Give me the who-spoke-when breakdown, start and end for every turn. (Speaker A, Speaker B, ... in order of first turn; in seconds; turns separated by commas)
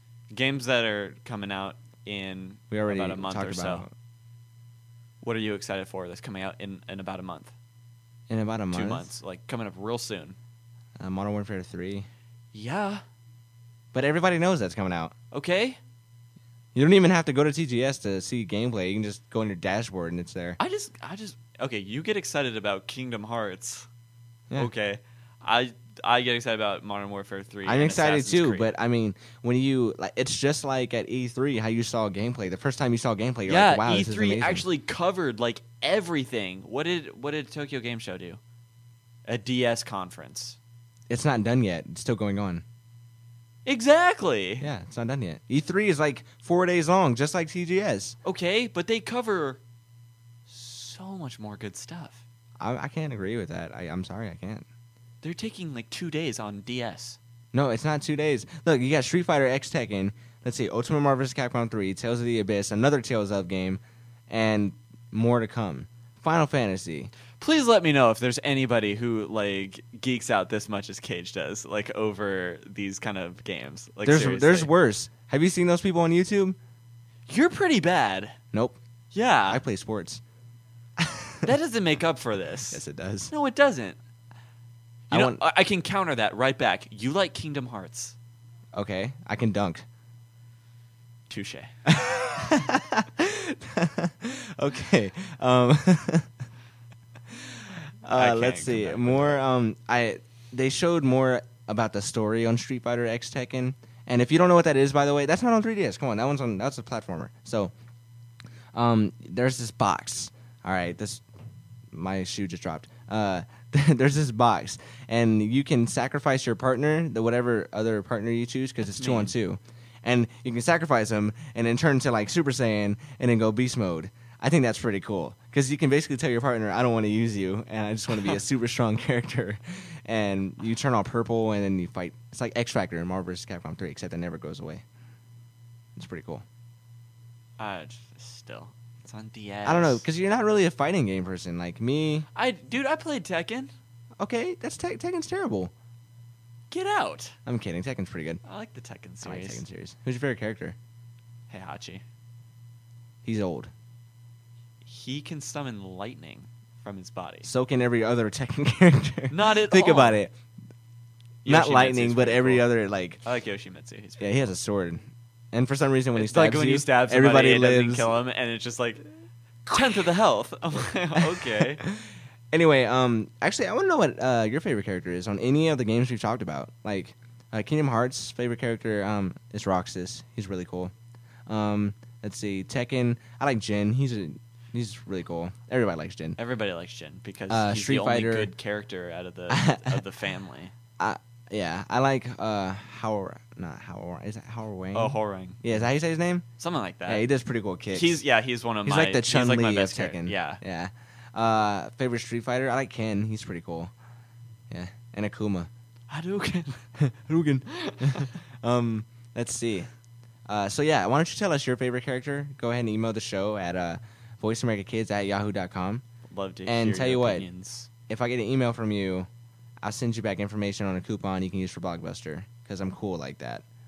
Speaker A: 0.3-3.8, Speaker B: 2.7-3.9, Speaker A: 5.2-7.5, Speaker B: 8.3-9.1, Speaker A: 8.7-10.4, Speaker B: 11.0-12.1, Speaker A: 12.5-13.0, Speaker B: 13.9-15.1, Speaker A: 15.3-15.8, Speaker B: 16.7-20.6, Speaker A: 20.6-23.9, Speaker A: 24.6-28.7, Speaker B: 27.6-34.6, Speaker A: 33.5-38.4, Speaker A: 39.2-40.6, Speaker B: 41.1-42.6, Speaker A: 43.6-44.7, Speaker B: 44.6-48.2, Speaker A: 48.2-49.6, Speaker A: 50.5-52.2, Speaker B: 52.6-54.6, Speaker A: 55.2-57.2, Speaker B: 57.5-67.1, Speaker A: 67.4-74.7, Speaker B: 74.0-76.6, Speaker A: 77.3-78.4, Speaker B: 78.5-78.8, Speaker A: 79.1-79.6, Speaker B: 79.5-80.2, Speaker B: 81.0-81.5, Speaker A: 81.4-84.0, Speaker B: 82.7-83.3, Speaker A: 85.1-88.1, Speaker B: 85.1-85.4, Speaker B: 88.7-89.8, Speaker A: 91.3-91.7, Speaker B: 91.8-96.3, Speaker B: 98.0-107.7, Speaker A: 98.2-99.4, Speaker B: 108.7-111.2, Speaker B: 111.9-134.8, Speaker A: 118.8-119.3, Speaker B: 135.9-136.4, Speaker A: 137.6-140.0, Speaker B: 139.6-142.3, Speaker A: 142.3-143.7, Speaker B: 144.2-145.7, Speaker A: 146.7-147.3, Speaker B: 147.4-148.4, Speaker A: 148.4-149.6, Speaker B: 149.2-150.8, Speaker A: 151.5-152.0, Speaker B: 153.2-153.7, Speaker A: 154.8-157.5, Speaker B: 157.4-160.3, Speaker A: 159.3-160.2, Speaker A: 161.4-162.7, Speaker B: 161.4-163.2, Speaker A: 163.2-164.5, Speaker B: 164.2-168.1, Speaker A: 166.1-169.1, Speaker A: 169.7-171.8, Speaker B: 171.2-180.9, Speaker B: 181.5-186.4, Speaker A: 186.4-190.7, Speaker B: 187.5-188.5, Speaker B: 189.5-190.0, Speaker B: 191.0-196.5, Speaker A: 194.9-195.6, Speaker A: 196.6-197.2, Speaker B: 197.1-198.2, Speaker A: 197.9-200.6, Speaker B: 198.8-203.9, Speaker B: 204.7-205.7, Speaker A: 206.1-206.9, Speaker B: 207.0-209.9, Speaker A: 207.7-208.3, Speaker B: 210.5-216.0, Speaker A: 216.3-217.9, Speaker B: 216.7-217.5, Speaker B: 218.1-219.3, Speaker B: 219.8-223.6